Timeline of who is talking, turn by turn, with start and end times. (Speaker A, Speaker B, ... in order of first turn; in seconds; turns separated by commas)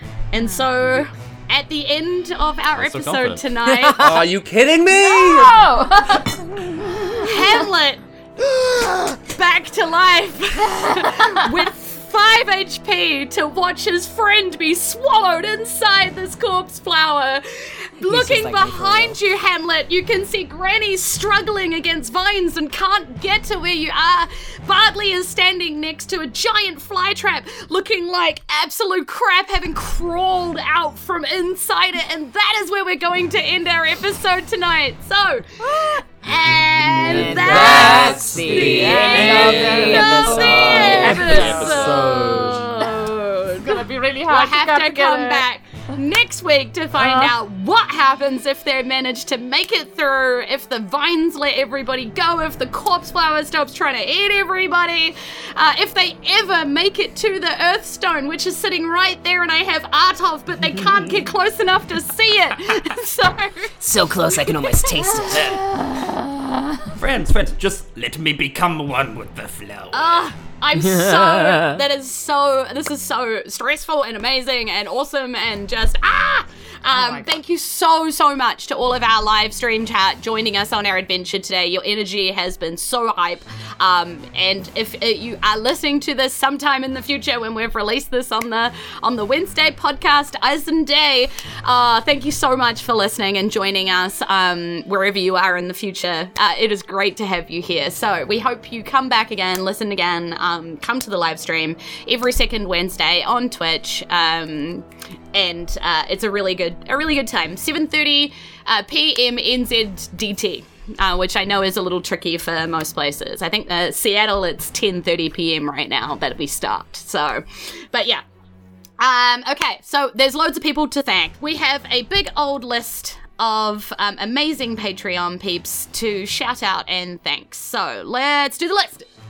Speaker A: 0.3-4.1, Speaker B: 2.8-3.5, Speaker C: 3.7-4.2, Speaker D: 4.0-5.6, Speaker E: 4.9-7.5, Speaker A: 7.2-63.8, Speaker C: 18.0-19.2, Speaker D: 36.8-42.6, Speaker C: 37.1-41.6, Speaker B: 37.6-40.1, Speaker E: 38.6-41.7, Speaker B: 40.9-42.1, Speaker E: 42.8-43.0, Speaker E: 43.6-45.4, Speaker E: 47.0-47.3, Speaker B: 60.8-61.1, Speaker C: 63.8-65.7, Speaker A: 64.3-64.6, Speaker B: 67.0-70.3, Speaker A: 69.9-118.2, Speaker C: 70.8-71.8, Speaker E: 76.9-77.3, Speaker A: 119.0-129.1